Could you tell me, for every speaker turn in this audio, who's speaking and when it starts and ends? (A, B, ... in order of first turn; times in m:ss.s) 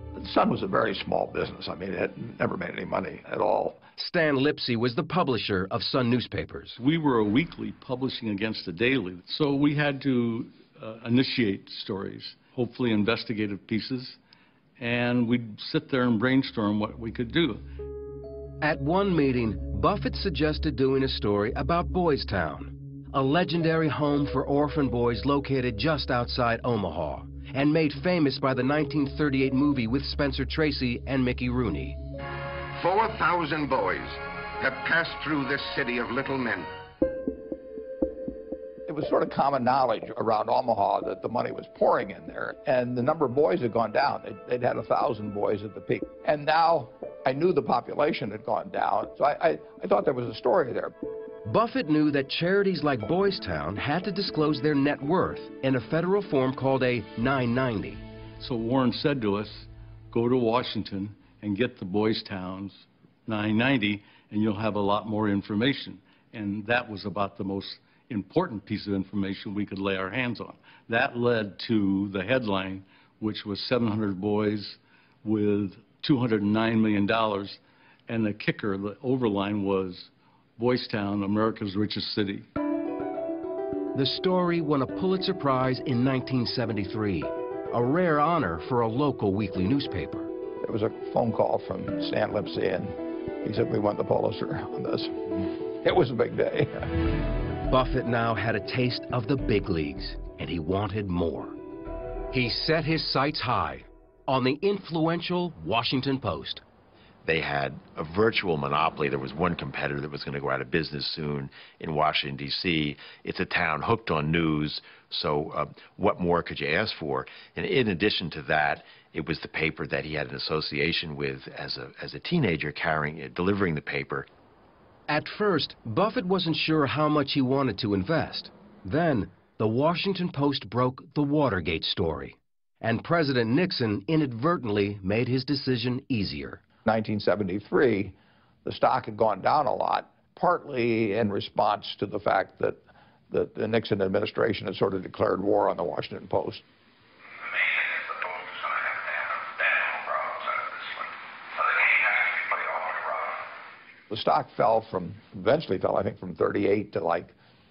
0:00.2-0:03.8 A
0:04.0-0:06.8 B
0:06.8-0:14.2 C
0:14.8-0:17.6 C
0:18.6-0:32.0 B
0:32.7-0:36.7 D
0:38.9-0:50.9 A
0:51.4-0:58.0 B
0:58.4-1:22.4 C
1:23.9-1:30.3 B
1:30.6-1:35.2 A
1:35.8-1:36.9 A
1:37.7-1:41.6 B
1:42.3-1:46.6 B
1:47.2-2:04.3 E
2:05.1-2:16.6 B
2:16.8-2:26.6 A
2:34.1-2:37.3 A